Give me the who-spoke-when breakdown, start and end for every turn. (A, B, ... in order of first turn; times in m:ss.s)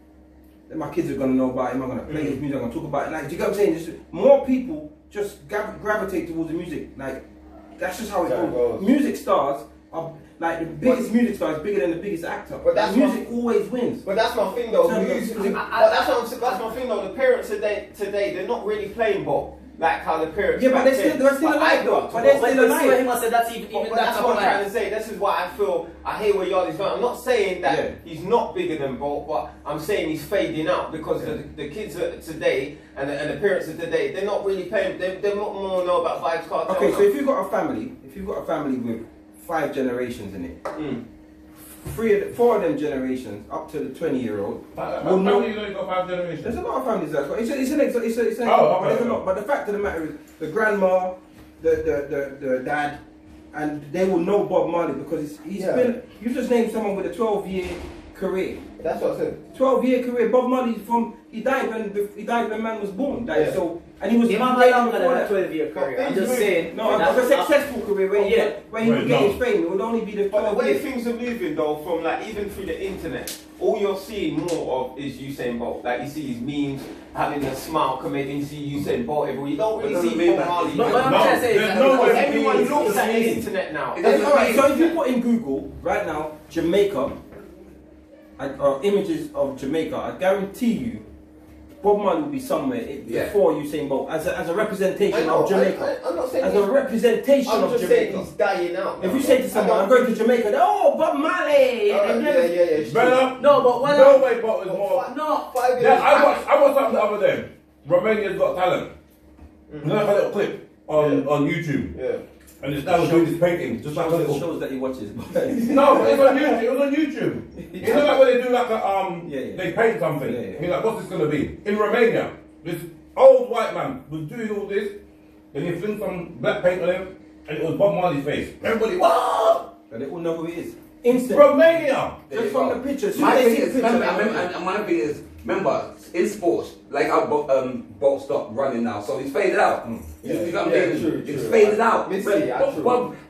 0:00.7-0:07.2 A
0:02.1-0:02.4 B
0:07.8-0:14.1 A
0:08.2-0:08.9 B
0:10.8-0:11.1 B
0:12.6-0:13.2 B
0:14.0-0:22.5 B
0:14.7-0:15.7 A
0:15.6-0:16.6 C
0:20.5-0:23.0 A
0:22.4-0:24.6 C
0:23.7-0:37.1 B
0:27.6-0:28.0 A
0:30.9-0:31.4 A
0:36.6-0:40.6 A
0:40.7-0:41.0 B
0:41.8-0:45.5 A
0:44.8-0:46.5 D
0:46.4-0:53.0 A
0:48.4-0:49.2 D
0:53.5-0:58.6 A
0:55.6-0:55.9 B
0:58.8-0:59.4 B
0:59.5-1:05.3 A
1:03.3-1:03.6 B
1:04.3-1:07.5 C
1:05.7-1:07.2 B
1:06.7-1:10.8 A
1:08.1-1:08.5 C
1:08.8-1:09.4 D
1:10.3-1:24.9 B
1:19.8-1:21.1 E
1:20.7-1:23.5 C
1:20.9-1:23.1 D
1:24.0-1:24.8 E
1:24.0-1:27.2 A
1:28.4-1:31.0 A
1:31.8-1:38.3 A
1:33.0-1:33.3 E
1:35.1-1:36.7 B
1:37.4-1:40.2 B
1:39.0-1:42.5 A
1:41.9-1:43.3 B
1:41.9-1:42.4 C
1:42.8-1:45.1 D
1:43.4-1:44.3 C
1:44.6-1:46.5 B
1:45.0-1:45.5 C
1:45.8-1:48.9 D
1:49.7-1:50.1 B
1:49.8-1:51.9 D
1:50.9-1:51.3 B
1:51.9-1:52.2 B
1:52.6-1:54.4 D
1:52.8-1:56.6 A
1:55.6-2:05.0 D
1:57.6-1:58.1 A
1:59.2-1:59.7 A
2:00.2-2:00.6 A
2:05.5-2:09.6 D
2:08.7-2:09.6 E
2:09.9-2:14.5 A
2:11.3-2:12.2 D
2:12.3-2:23.1 E
2:19.8-2:20.1 A
2:20.2-2:23.1 B